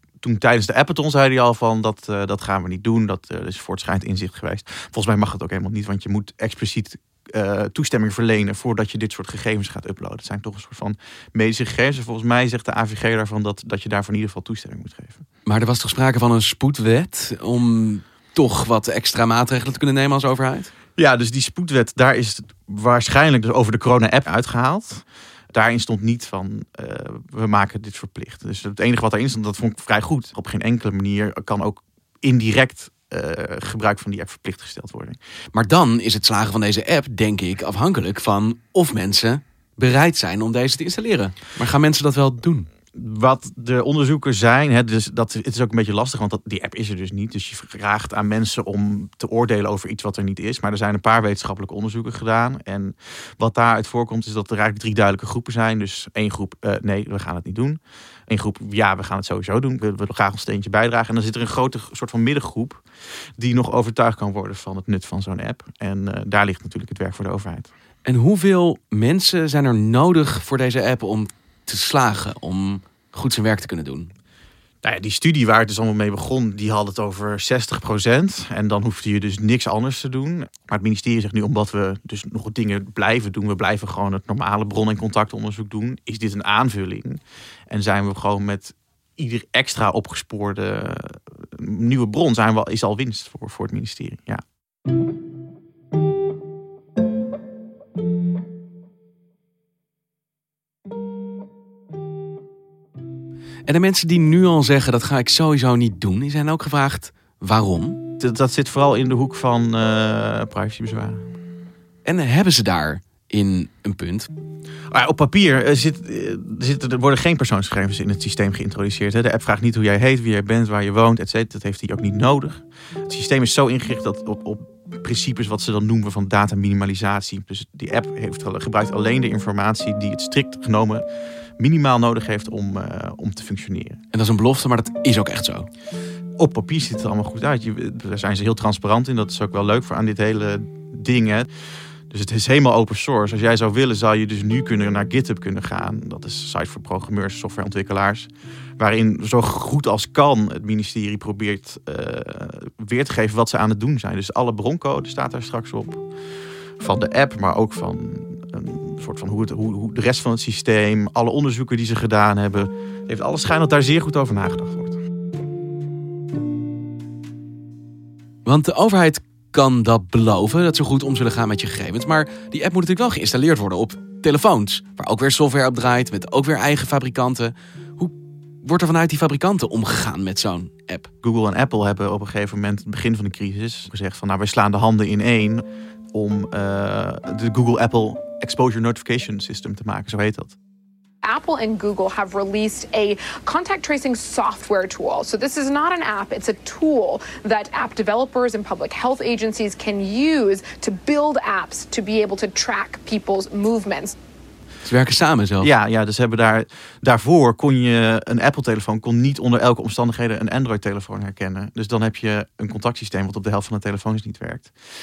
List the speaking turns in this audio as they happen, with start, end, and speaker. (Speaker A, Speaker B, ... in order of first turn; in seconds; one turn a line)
Speaker A: 0.2-15.2
Speaker B: 15.4-20.7
Speaker A: 20.9-35.2
Speaker B: 35.5-42.7
Speaker A: 42.9-62.8
Speaker A: 63.4-67.7
Speaker B: 68.0-74.1
Speaker A: 74.8-94.4
Speaker B: 103.7-108.0
Speaker A: 108.2-111.3
Speaker B: 112.0-114.3
Speaker A: 114.9-131.1
Speaker A: 131.6-134.0
Speaker B: 134.1-135.7
Speaker A: 136.4-141.5
Speaker A: 142.1-156.0
Speaker A: 156.8-165.0
Speaker B: 168.4-181.1
Speaker A: 181.2-190.5
Speaker C: 191.2-204.1
Speaker B: 204.8-205.7
Speaker A: 205.6-214.7